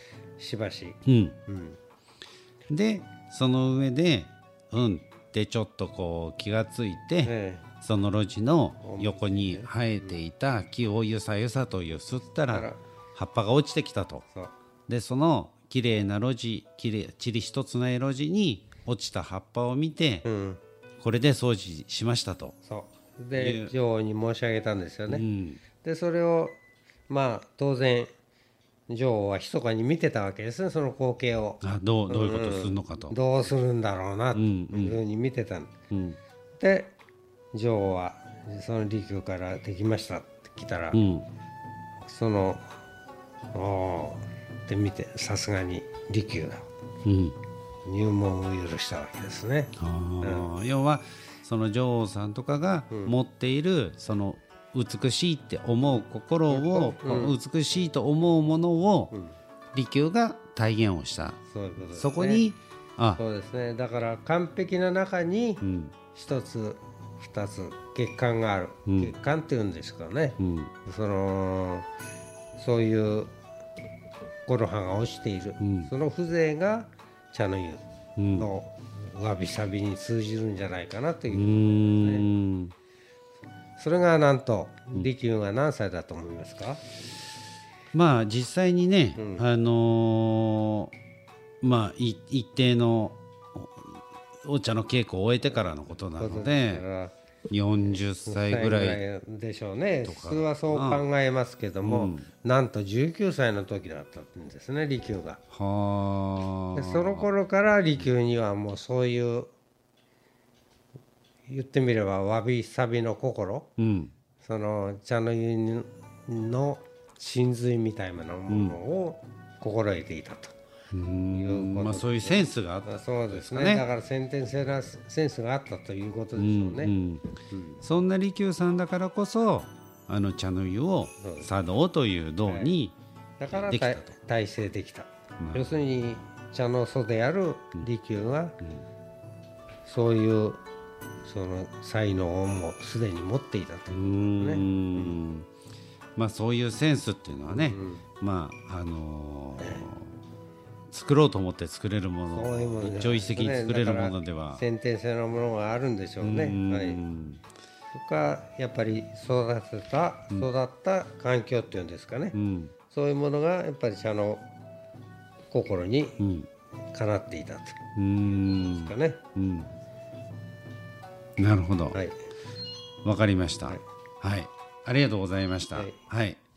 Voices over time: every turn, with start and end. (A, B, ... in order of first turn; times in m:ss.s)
0:00.4-0:01.8 A
0:01.0-0:01.4 B
0:02.7-0:14.2 B
0:07.2-0:07.6 A
0:08.8-0:10.2 A
0:12.5-0:12.8 A
0:14.9-0:20.2 B
0:20.2-0:20.6 A
0:21.0-0:22.5 B
0:22.6-0:25.2 A
0:23.3-0:23.7 B
0:25.1-0:25.6 B
0:25.8-0:26.6 A
0:27.1-0:28.1 A
0:28.9-0:35.7 A
0:31.6-0:33.2 B
0:34.3-0:35.0 B
0:35.9-0:36.2 B
0:36.6-0:36.9 A
0:37.5-0:41.0 A
0:40.9-0:41.2 B
0:42.0-0:42.7 A
0:43.5-0:46.6 A
0:47.0-0:47.4 B
0:47.8-0:50.5 A
0:49.8-0:59.1 B
0:56.5-0:57.4 A
0:59.1-0:59.4 A
0:59.7-1:01.4 B
1:01.5-1:02.5 A
1:01.9-1:03.2 B
1:03.2-1:11.9 A
1:05.6-1:05.9 B
1:08.9-1:09.1 B
1:10.4-1:10.7 B
1:12.6-1:13.3 A
1:14.4-1:17.8 A
1:15.6-1:15.9 B
1:18.2-1:18.5 B
1:18.4-1:22.3 A
1:21.3-1:22.7 B
1:23.8-1:26.8 A
1:27.9-1:30.9 B
1:29.2-1:29.4 A
1:31.6-1:36.8 B
1:36.2-1:37.1 A
1:37.5-1:39.0 B
1:38.2-1:45.4 A
1:40.0-1:41.0 B
1:41.8-1:42.3 B
1:45.5-1:47.3 B
1:46.7-1:49.5 A
1:51.5-1:53.7 A
1:53.8-1:54.1 B
1:54.4-2:00.5 A
1:58.5-1:58.8 B
2:00.9-2:03.8 B
2:01.3-2:06.9 A
2:06.4-2:07.3 B
2:07.5-2:07.8 A
2:07.8-2:13.0 B
2:11.2-2:11.5 A
2:12.4-2:12.7 A
2:13.4-2:18.6 A
2:13.5-2:14.1 B
2:15.4-2:15.7 B
2:19.8-2:20.6 A
2:21.2-2:25.2 A
2:23.9-2:25.5 B
2:26.2-2:30.1 B
2:27.5-2:28.0 A
2:30.9-2:34.6 B
2:32.3-2:37.0 A
2:36.2-2:37.4 B
2:37.9-2:42.4 A
2:42.3-2:42.7 B
2:42.9-2:44.5 A
2:45.5-2:46.2 A
2:46.2-2:46.5 B
2:46.9-2:49.2 A
2:48.0-2:49.7 B
2:51.4-2:52.0 B
2:53.0-2:56.4 B